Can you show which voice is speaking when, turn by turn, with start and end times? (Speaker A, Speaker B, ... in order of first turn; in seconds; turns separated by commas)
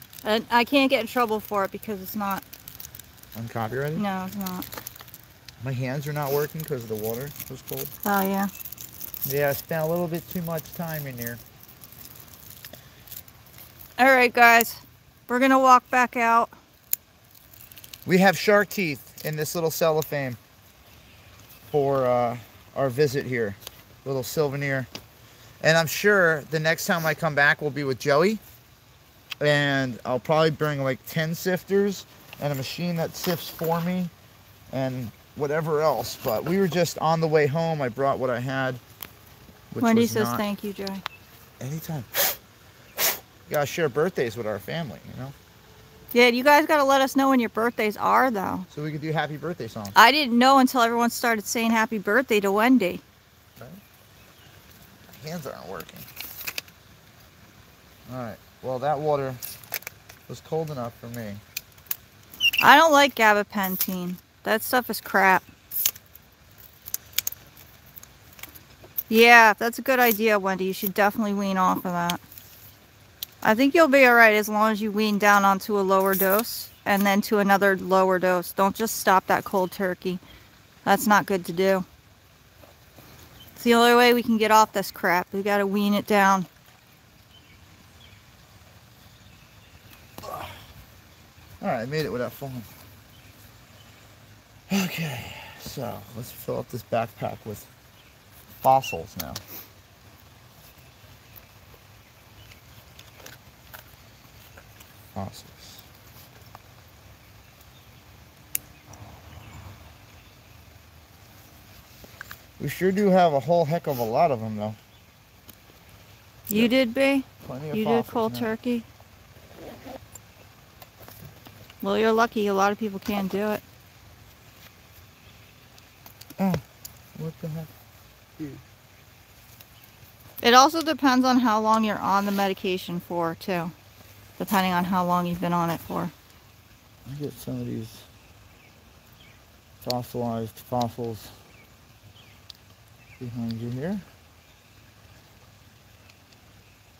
Speaker A: 0.2-2.4, Speaker B: 3.3-4.1, Speaker A: 4.0-4.7, Speaker B: 5.6-7.9, Speaker A: 8.0-8.5, Speaker B: 9.2-11.4, Speaker A: 14.0-16.5, Speaker B: 18.1-20.4, Speaker B: 21.7-24.9, Speaker B: 25.6-28.4, Speaker B: 29.4-34.1, Speaker B: 34.7-38.8, Speaker B: 39.7-40.4, Speaker A: 39.8-41.0, Speaker B: 41.6-42.4, Speaker B: 43.5-45.3, Speaker A: 46.1-48.7, Speaker B: 48.7-49.9, Speaker A: 49.9-53.0, Speaker B: 55.1-56.0, Speaker B: 58.1-59.4, Speaker B: 60.3-61.4, Speaker A: 62.6-65.5, Speaker A: 69.1-72.2, Speaker A: 73.4-80.2, Speaker A: 80.8-81.8, Speaker A: 83.5-86.5, Speaker B: 90.2-90.5, Speaker B: 91.6-92.7, Speaker B: 94.7-97.7, Speaker B: 98.6-99.4, Speaker B: 105.1-105.8, Speaker B: 112.6-114.8, Speaker A: 116.5-118.8, Speaker B: 117.4-118.5, Speaker A: 121.8-123.6, Speaker B: 127.2-127.7, Speaker B: 128.4-128.6, Speaker A: 130.4-133.7, Speaker A: 134.4-136.1, Speaker B: 137.1-138.1, Speaker B: 139.8-141.3, Speaker B: 143.2-144.0